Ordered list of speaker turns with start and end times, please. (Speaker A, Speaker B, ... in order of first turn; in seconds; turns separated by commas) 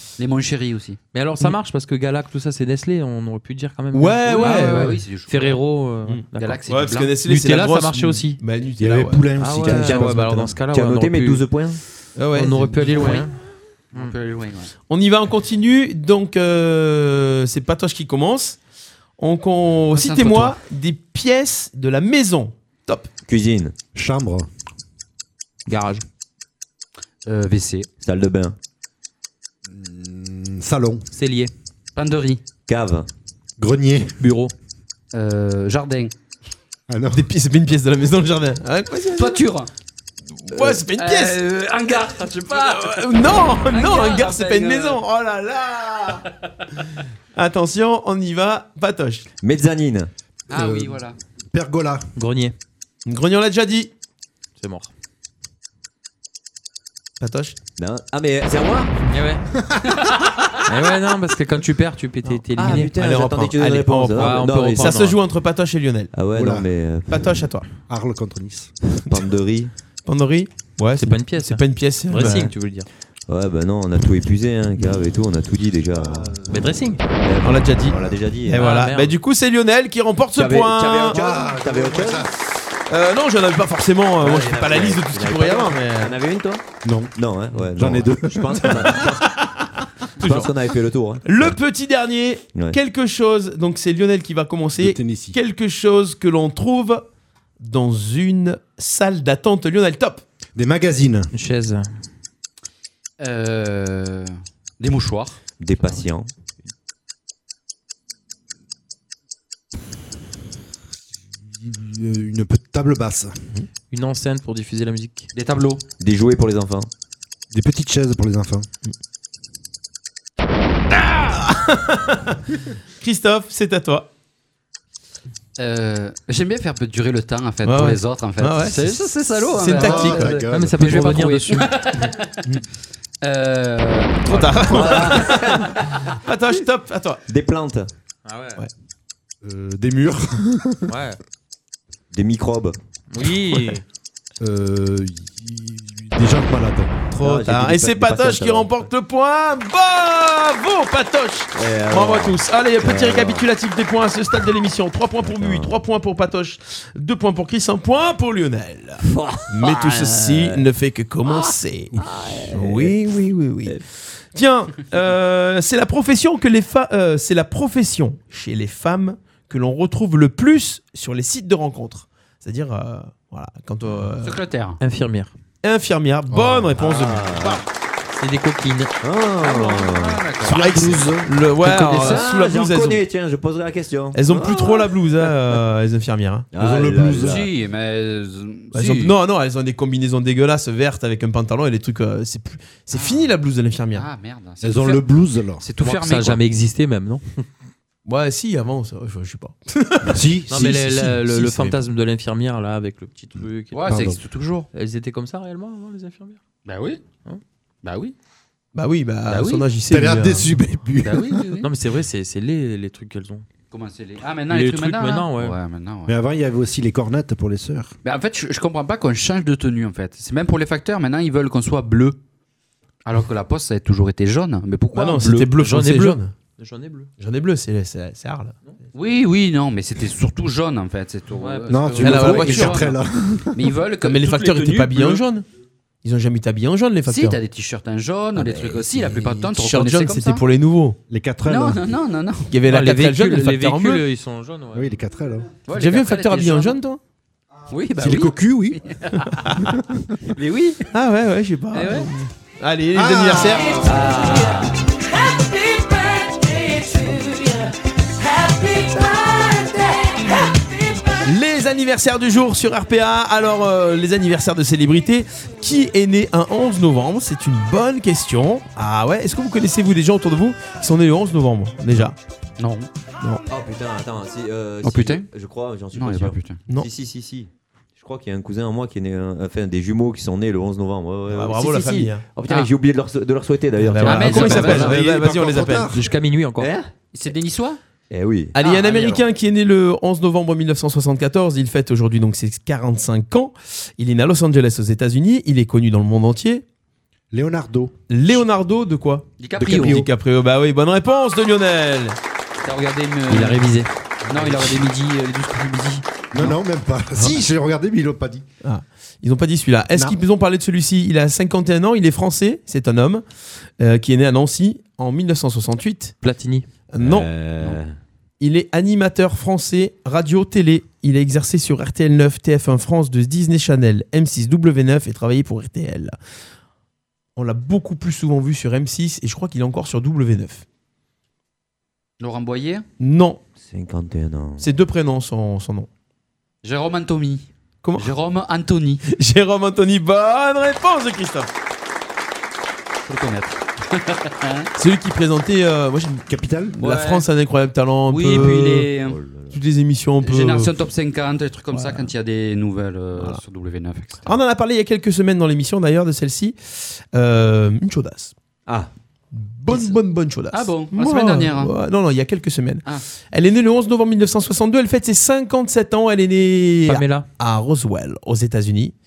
Speaker A: 0.2-1.0, Speaker B: 1.1-6.6, Speaker C: 3.9-5.0, Speaker A: 4.3-5.6, Speaker C: 6.1-9.4, Speaker A: 6.3-7.1, Speaker B: 7.2-8.4, Speaker D: 8.8-10.3, Speaker B: 9.4-11.4, Speaker E: 9.6-11.8, Speaker C: 12.2-13.3, Speaker B: 12.3-13.3, Speaker A: 13.9-14.7, Speaker C: 14.9-18.6, Speaker C: 19.2-23.1, Speaker A: 19.9-20.6, Speaker E: 23.3-23.7, Speaker D: 23.9-24.5, Speaker B: 25.7-26.1, Speaker A: 27.2-27.9, Speaker E: 28.0-28.6, Speaker D: 29.6-31.1, Speaker B: 31.1-31.5, Speaker A: 31.9-32.4, Speaker E: 32.7-33.1, Speaker D: 33.6-34.2, Speaker B: 34.2-34.5, Speaker A: 35.1-36.1, Speaker D: 36.9-37.3, Speaker C: 37.1-39.4, Speaker A: 39.1-39.7, Speaker C: 40.4-41.4, Speaker A: 40.9-45.0, Speaker C: 42.5-46.2, Speaker C: 47.4-49.3, Speaker E: 49.4-50.1, Speaker A: 50.5-51.1, Speaker D: 50.5-51.0, Speaker D: 51.5-52.1, Speaker B: 52.1-52.5, Speaker C: 53.0-53.9, Speaker B: 54.6-54.9, Speaker C: 57.2-57.6, Speaker E: 57.8-59.0, Speaker B: 59.1-59.4, Speaker B: 60.6-62.9, Speaker E: 62.6-65.2, Speaker C: 62.6-66.1, Speaker B: 64.1-65.1, Speaker E: 66.1-67.4, Speaker D: 66.3-66.7, Speaker C: 67.1-67.6, Speaker D: 67.9-68.7, Speaker E: 69.1-69.7, Speaker C: 70.0-72.5, Speaker B: 71.0-72.9, Speaker E: 73.3-76.3, Speaker D: 75.9-77.0, Speaker B: 76.5-77.0, Speaker E: 77.2-78.7, Speaker C: 77.4-81.2, Speaker D: 77.8-78.2, Speaker B: 78.5-79.1, Speaker E: 80.3-82.3, Speaker D: 81.1-82.3, Speaker C: 82.9-86.2, Speaker E: 84.2-86.6, Speaker D: 86.8-87.1, Speaker E: 87.2-89.3, Speaker D: 87.7-89.0, Speaker C: 89.2-89.7, Speaker E: 90.2-91.6, Speaker C: 90.2-90.5, Speaker C: 91.2-97.1, Speaker D: 94.8-95.4, Speaker C: 97.6-100.2, Speaker D: 100.5-101.3, Speaker B: 101.3-101.9, Speaker A: 103.2-106.0, Speaker E: 105.6-106.3, Speaker D: 111.5-113.5, Speaker B: 113.9-115.3, Speaker A: 115.3-115.8, Speaker E: 116.0-116.9, Speaker D: 117.5-118.7, Speaker C: 121.0-122.4, Speaker C: 123.0-124.1, Speaker A: 125.6-132.3, Speaker C: 127.6-130.4, Speaker D: 129.7-130.8, Speaker B: 130.4-132.1, Speaker A: 133.2-135.2, Speaker C: 134.3-135.6, Speaker E: 134.7-135.8, Speaker C: 136.2-137.2, Speaker E: 137.3-137.9, Speaker B: 138.2-138.6, Speaker D: 139.4-140.9, Speaker B: 140.9-141.2, Speaker E: 142.1-142.8, Speaker B: 143.1-143.8, Speaker D: 144.4-147.0, Speaker C: 147.1-163.8, Speaker E: 147.2-148.8, Speaker E: 151.5-153.5, Speaker E: 155.2-155.7, Speaker E: 159.0-160.7, Speaker E: 161.2-163.0, Speaker C: 164.3-174.4, Speaker A: 174.2-174.8, Speaker B: 174.8-175.3, Speaker C: 175.6-177.6, Speaker D: 176.3-176.7, Speaker E: 176.8-177.6, Speaker B: 178.1-178.9, Speaker E: 179.0-180.3, Speaker A: 179.4-181.1, Speaker C: 180.4-183.0, Speaker D: 180.5-181.7, Speaker A: 181.6-182.3, Speaker E: 181.7-184.9, Speaker C: 184.1-186.5, Speaker E: 186.5-187.5, Speaker D: 186.6-187.4, Speaker A: 187.2-189.2, Speaker C: 188.7-194.1, Speaker A: 192.9-193.3, Speaker A: 193.9-195.1, Speaker D: 194.6-195.6, Speaker A: 195.6-196.4, Speaker B: 195.8-197.4, Speaker C: 198.1-200.2, Speaker D: 200.1-201.8, Speaker B: 200.5-204.1, Speaker A: 203.7-204.7, Speaker D: 203.9-204.2, Speaker B: 204.7-206.4, Speaker A: 206.7-207.0, Speaker A: 207.8-208.1, Speaker C: 208.7-210.6, Speaker A: 209.3-209.6, Speaker D: 209.9-211.4, Speaker A: 211.0-211.7, Speaker B: 211.6-213.4, Speaker A: 213.7-216.1, Speaker B: 214.5-215.6, Speaker D: 216.1-217.9, Speaker A: 218.1-222.2, Speaker A: 223.1-225.3, Speaker C: 224.9-226.3, Speaker B: 225.2-227.1, Speaker C: 227.2-228.6, Speaker A: 228.9-233.0, Speaker B: 231.4-232.9, Speaker D: 231.7-233.7, Speaker C: 232.0-232.8, Speaker A: 233.5-235.2, Speaker C: 234.0-235.4, Speaker C: 236.0-237.4, Speaker A: 237.1-240.4, Speaker C: 239.2-241.0, Speaker D: 241.1-241.9, Speaker A: 241.5-242.5, Speaker C: 242.5-244.0, Speaker B: 242.7-245.0, Speaker D: 244.7-245.5, Speaker A: 245.7-246.8, Speaker C: 245.7-247.0, Speaker A: 247.7-249.3, Speaker D: 248.0-248.8, Speaker C: 249.4-249.7, Speaker B: 250.4-250.8, Speaker C: 250.9-253.8, Speaker A: 251.7-252.1, Speaker D: 252.9-254.1, Speaker E: 253.8-254.8, Speaker C: 261.2-272.1, Speaker A: 272.6-272.9, Speaker E: 273.5-284.7, Speaker A: 274.8-275.3, Speaker A: 275.9-276.6, Speaker C: 281.3-282.3, Speaker C: 283.8-285.9, Speaker A: 284.0-285.0, Speaker D: 284.4-286.0, Speaker B: 285.9-286.7, Speaker E: 286.6-286.9, Speaker A: 287.1-287.8, Speaker E: 288.1-288.6, Speaker A: 288.6-289.2, Speaker C: 288.6-296.6, Speaker D: 297.3-297.9, Speaker C: 298.1-302.2, Speaker A: 299.4-300.1, Speaker D: 299.6-300.1, Speaker A: 302.6-303.7, Speaker B: 303.3-303.9, Speaker D: 304.2-304.7, Speaker A: 304.3-306.1, Speaker D: 306.3-308.4, Speaker C: 308.6-313.2, Speaker C: 313.8-316.1, Speaker B: 316.2-316.6, Speaker C: 316.9-317.3, Speaker E: 317.0-317.9, Speaker C: 318.4-326.2, Speaker C: 327.4-330.6, Speaker A: 332.2-332.9, Speaker C: 333.0-333.4, Speaker E: 333.6-334.7, Speaker C: 334.6-335.9, Speaker A: 336.6-339.0, Speaker C: 337.8-338.1, Speaker C: 339.1-341.5, Speaker A: 343.1-344.7, Speaker C: 344.8-346.2, Speaker D: 346.3-346.8, Speaker A: 346.8-347.3, Speaker C: 346.8-348.9, Speaker A: 348.1-349.2, Speaker E: 349.1-349.6, Speaker C: 349.5-350.7, Speaker A: 350.2-354.4, Speaker C: 351.7-352.1, Speaker C: 353.1-353.4, Speaker C: 354.2-358.3, Speaker C: 359.3-368.9, Speaker A: 359.7-360.0, Speaker A: 360.5-361.8, Speaker B: 366.9-367.3